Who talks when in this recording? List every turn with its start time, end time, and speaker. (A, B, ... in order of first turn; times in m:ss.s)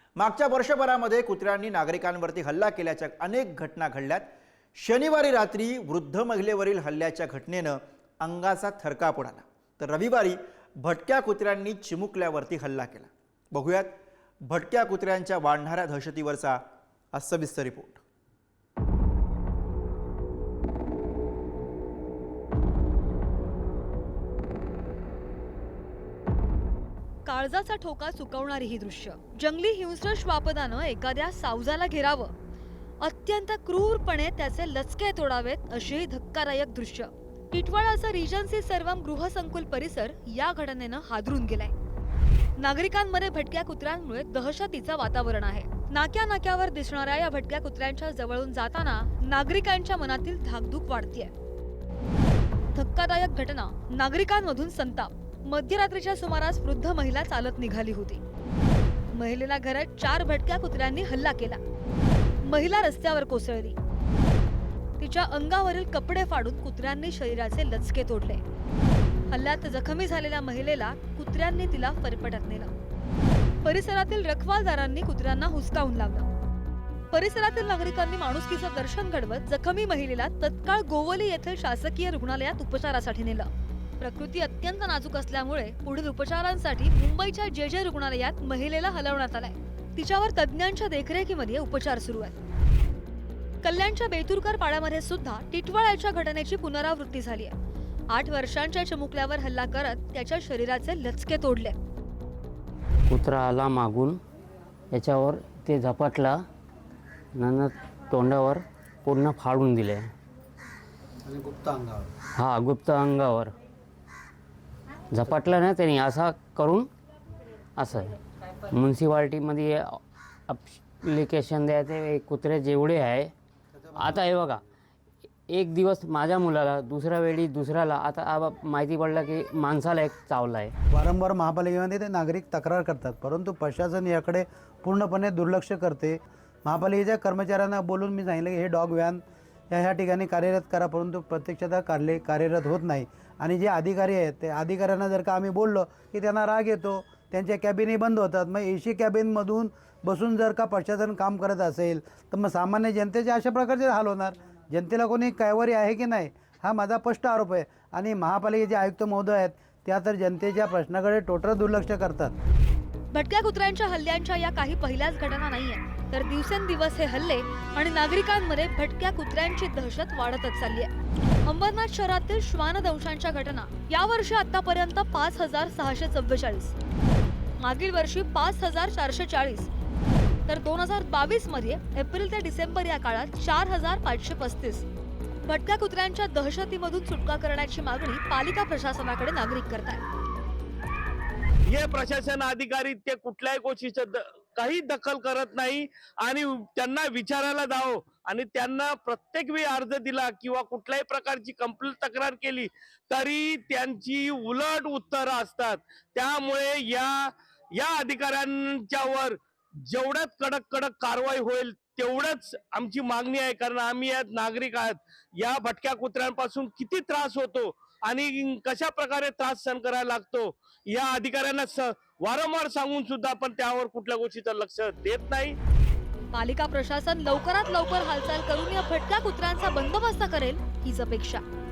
0:00.2-0:16.6 A
0:17.1-0:18.0 A
0:27.2-0:32.3 B
0:33.0-0:41.7 B
0:42.6-0:51.3 B
0:52.7-0:58.2 B
0:59.1-1:01.6 B
1:02.4-1:03.8 B
1:05.0-1:08.4 B
1:09.3-1:12.7 B
1:13.6-1:16.3 B
1:17.1-1:32.4 B
1:33.6-1:37.6 B
1:38.1-1:41.8 B
1:43.1-1:44.2 C
1:44.9-1:46.4 C
1:47.4-1:50.1 C
1:51.3-1:52.1 D
1:52.4-1:53.5 C
1:55.1-1:56.9 C
1:57.8-2:03.3 C
2:03.9-2:04.6 C
2:05.5-2:10.8 C
2:10.9-2:42.4 D
2:43.1-2:50.9 B
2:51.4-2:56.7 B
2:57.6-2:59.7 B
3:00.5-3:04.9 B
3:05.5-3:10.0 B
3:11.7-3:45.6 E
3:46.3-3:51.4 B